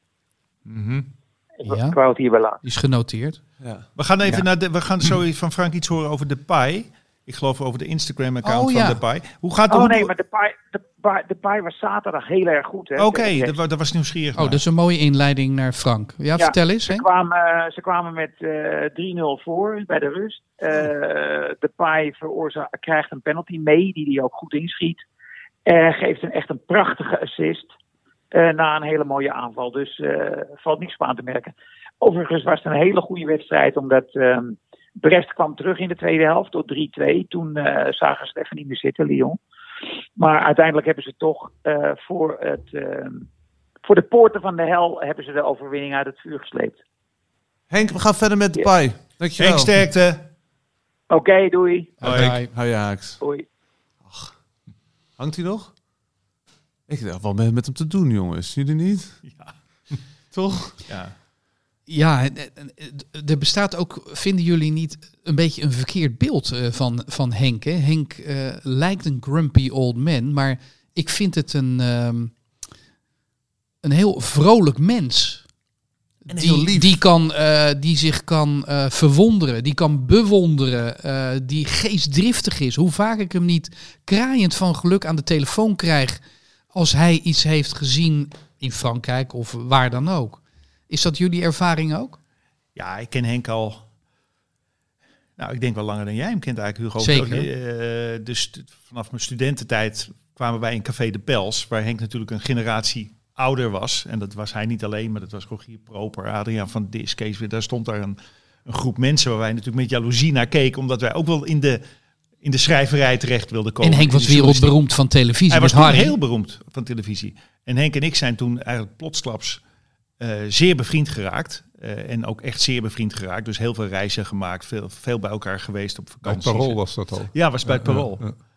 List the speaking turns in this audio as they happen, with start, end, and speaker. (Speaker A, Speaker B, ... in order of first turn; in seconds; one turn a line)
Speaker A: 0.7-1.1
Speaker B: 1.6-2.6
Speaker C: 1.6-2.0
Speaker C: 2.6-3.4
Speaker D: 3.6-3.9
Speaker A: 4.0-10.1
Speaker C: 8.4-9.0
Speaker B: 9.7-13.6
Speaker A: 13.0-14.6
Speaker C: 14.3-17.1
Speaker B: 16.4-25.0
Speaker B: 25.7-27.7
Speaker B: 28.3-39.4
Speaker B: 40.2-43.3
Speaker B: 43.8-46.8
Speaker D: 47.7-49.7
Speaker A: 49.4-50.3
Speaker B: 51.1-52.0
Speaker A: 52.0-52.3
Speaker C: 52.0-52.5
Speaker D: 52.1-53.2
Speaker B: 53.2-53.5
Speaker D: 54.0-54.4
Speaker D: 55.2-55.7
Speaker D: 56.9-59.2
Speaker A: 59.2-59.5
Speaker D: 60.3-60.9
Speaker A: 60.9-61.1
Speaker C: 61.9-72.3
Speaker C: 73.8-75.5
Speaker C: 76.3-86.2
Speaker D: 76.3-77.0
Speaker C: 86.7-92.2
Speaker A: 92.8-93.8
Speaker A: 95.4-111.8
Speaker C: 97.0-97.5
Speaker A: 112.4-114.8
Speaker C: 113.8-116.1
Speaker A: 115.5-119.6
Speaker A: 120.2-126.8
Speaker E: 126.2-128.3
Speaker A: 127.3-128.3